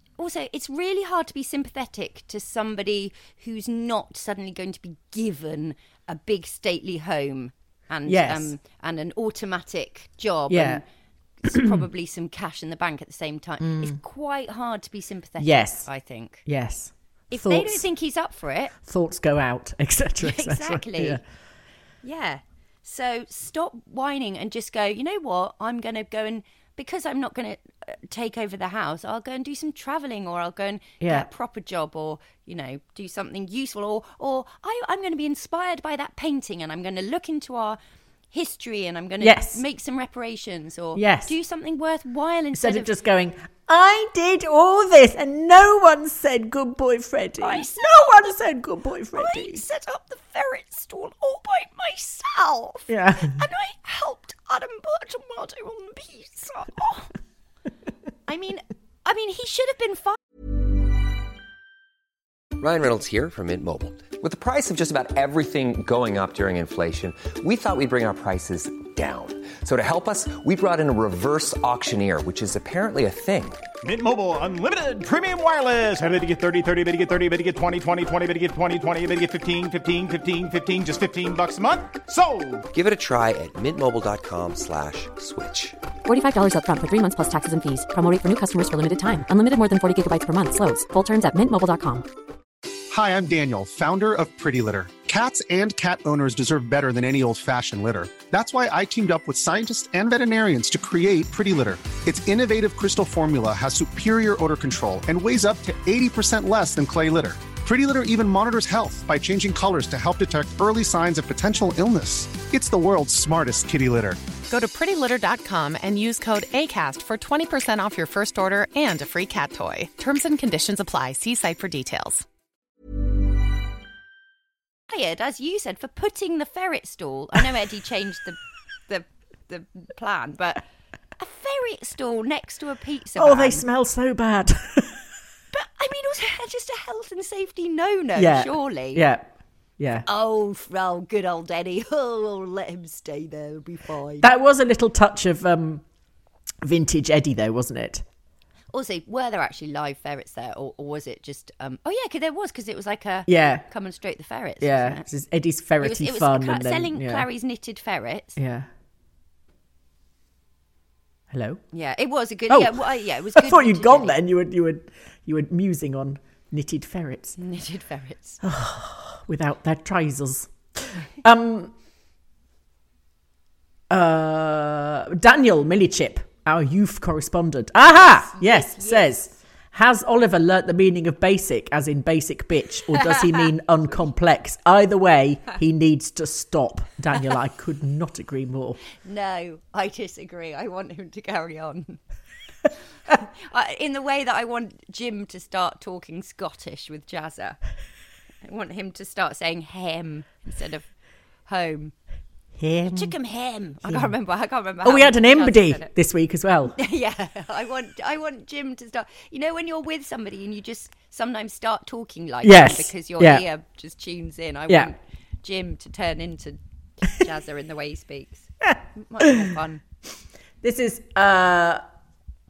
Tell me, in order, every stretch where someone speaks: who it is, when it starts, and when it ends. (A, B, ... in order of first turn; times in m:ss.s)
0:00.2-0:10.8 A
0:08.1-0:08.6 B
0:10.5-0:10.8 B
0:11.4-0:16.4 A
0:11.5-0:11.8 B
0:13.6-0:14.0 B
0:15.4-0:15.9 B
0:16.4-0:17.9 B
0:17.3-0:18.8 A
0:18.8-0:21.2 B
0:20.2-0:21.2 A
0:22.0-0:37.8 A
0:31.0-0:31.3 B
0:38.3-0:42.9 A
0:39.2-0:39.6 B
0:41.0-0:41.3 B
0:42.5-0:49.6 B
0:47.4-0:48.4 A
0:49.1-0:57.1 A
0:52.9-0:53.4 B
0:58.3-1:00.2 A
1:02.6-1:13.6 C
1:13.8-1:22.7 D
1:22.7-1:25.8 C
1:26.0-1:32.1 E
1:32.9-1:54.2 F
1:54.5-2:02.2 G
2:04.9-2:10.6 A
2:11.2-2:13.6 A
2:13.2-2:15.0 B
2:15.5-2:19.0 A
2:18.2-2:20.1 B
2:20.0-2:24.3 A
2:24.2-2:25.8 B
2:26.6-2:28.0 B
2:28.7-2:35.0 A
2:33.3-2:33.6 B
2:34.6-2:37.3 B
2:35.8-2:38.4 A
2:38.4-2:38.7 B
2:41.3-2:41.6 B
2:41.7-2:44.2 A
2:42.5-2:47.4 B
2:47.4-2:48.4 A
2:48.4-2:51.7 B
2:53.9-3:08.8 B
2:57.8-2:59.3 A
3:09.0-3:12.0 A
3:13.1-3:17.6 A
3:18.4-3:20.9 A
3:21.5-3:21.9 A
3:22.6-3:23.2 B
3:22.9-3:25.9 A
3:23.8-3:24.1 B
3:24.8-3:26.8 B
3:26.8-3:39.8 A
3:32.4-3:33.5 B
3:39.2-3:39.5 B
3:40.6-3:41.8 B